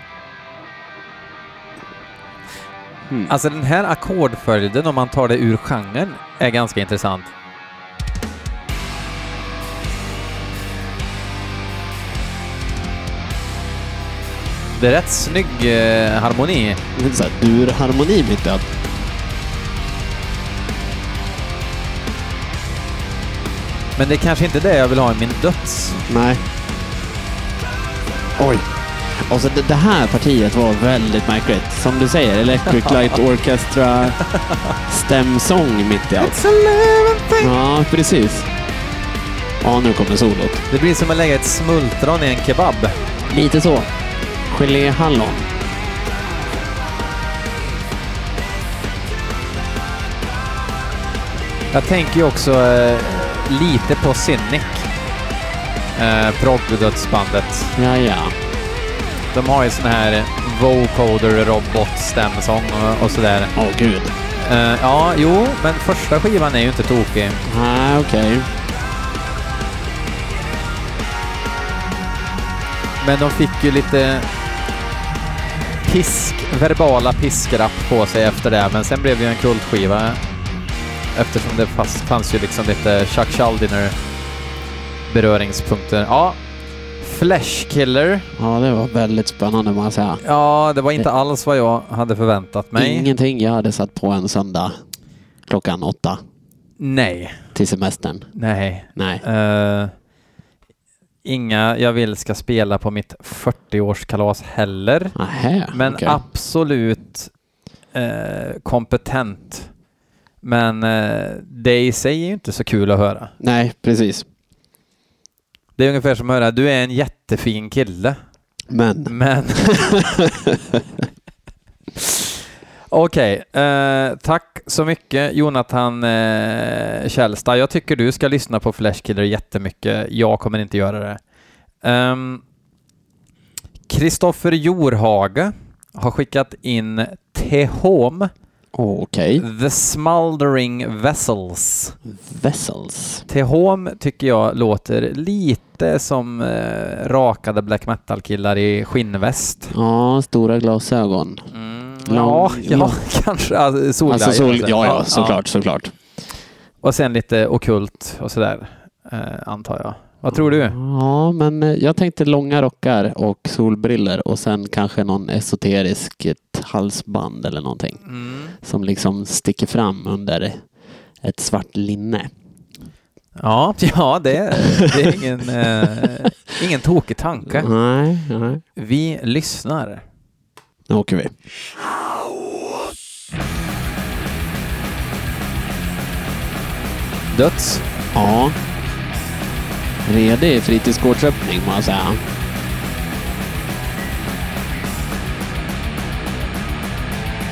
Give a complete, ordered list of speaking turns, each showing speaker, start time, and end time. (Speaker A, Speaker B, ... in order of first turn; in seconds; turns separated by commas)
Speaker A: 3.1-3.3, Speaker B: 3.3-7.3, Speaker B: 14.8-16.8, Speaker A: 16.9-18.6, Speaker B: 24.0-26.1, Speaker A: 26.1-26.4, Speaker A: 28.4-34.2, Speaker A: 34.9-36.4, Speaker B: 36.2-37.5, Speaker A: 37.4-38.5, Speaker A: 39.6-40.6, Speaker B: 40.7-43.0, Speaker A: 43.3-43.9, Speaker A: 44.5-45.5, Speaker B: 51.7-54.9, Speaker B: 56.0-57.8, Speaker A: 57.8-58.4, Speaker B: 59.3-63.5, Speaker A: 63.6-64.1, Speaker B: 64.4-67.4, Speaker A: 67.5-68.5, Speaker B: 73.0-74.3, Speaker B: 75.8-80.2, Speaker B: 81.2-84.0, Speaker B: 85.1-86.4, Speaker B: 87.0-88.3, Speaker A: 88.4-90.2, Speaker B: 90.2-93.1, Speaker A: 92.8-94.8, Speaker A: 95.5-96.2, Speaker B: 96.8-97.4, Speaker A: 97.5-98.3, Speaker B: 98.3-99.9, Speaker A: 99.0-99.2, Speaker B: 101.2-105.2, Speaker A: 105.2-106.2, Speaker B: 105.7-107.3, Speaker B: 107.9-109.7, Speaker B: 110.4-113.3, Speaker A: 113.4-114.2, Speaker B: 115.8-118.2, Speaker A: 118.7-120.8, Speaker B: 119.1-120.3, Speaker B: 122.9-131.2, Speaker B: 131.8-132.4, Speaker B: 133.9-138.3, Speaker A: 138.7-139.4, Speaker B: 139.4-142.0, Speaker A: 142.1-143.2, Speaker B: 143.3-149.7, Speaker A: 149.7-151.4, Speaker B: 151.5-155.4, Speaker A: 152.1-153.0, Speaker A: 154.1-155.9, Speaker B: 156.8-160.8, Speaker A: 160.3-168.0, Speaker B: 168.1-168.6, Speaker A: 168.6-170.6, Speaker A: 171.2-172.3, Speaker B: 173.4-177.7, Speaker A: 174.6-175.2, Speaker A: 177.5-178.6, Speaker B: 178.8-180.0, Speaker A: 180.9-181.3, Speaker B: 187.3-187.8, Speaker A: 188.1-188.6, Speaker A: 190.1-192.2